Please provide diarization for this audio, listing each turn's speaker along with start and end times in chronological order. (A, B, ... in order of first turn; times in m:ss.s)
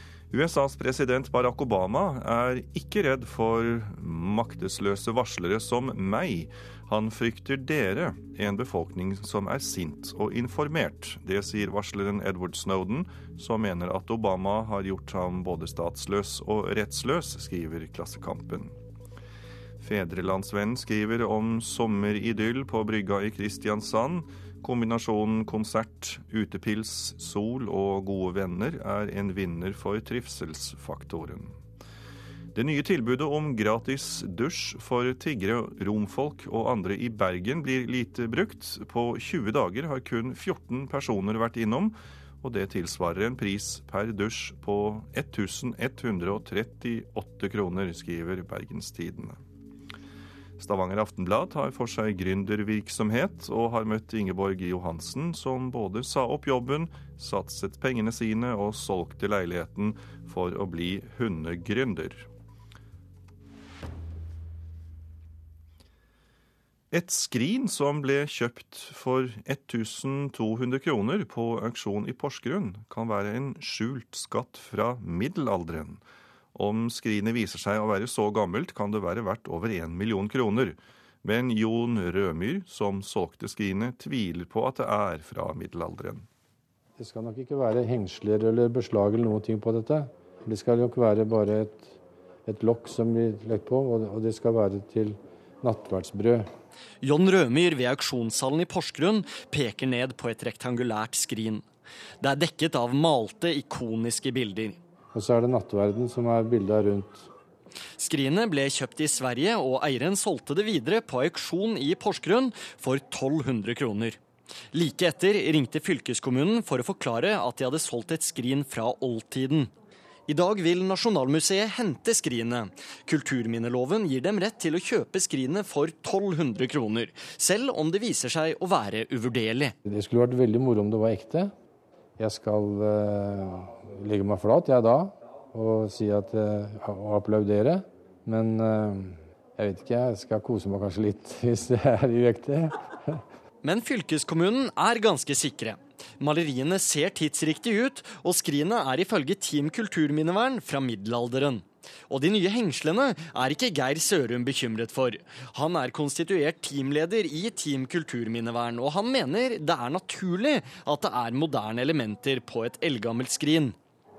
0:00.3-0:18.8 A
0:19.8-0:31.6 A
0:32.5-0:49.4 A
0:50.6-1:02.3 A
1:06.9-1:16.0 A
1:16.5-1:26.3 A
1:27.0-1:36.5 B
1:37.0-1:41.6 C
1:42.2-1:44.8 C
1:45.1-1:47.3 B
1:48.0-1:54.2 C
1:54.7-1:59.7 C
2:00.3-2:09.7 C
2:09.8-2:11.5 B
2:12.2-2:23.2 B
2:23.6-2:43.8 C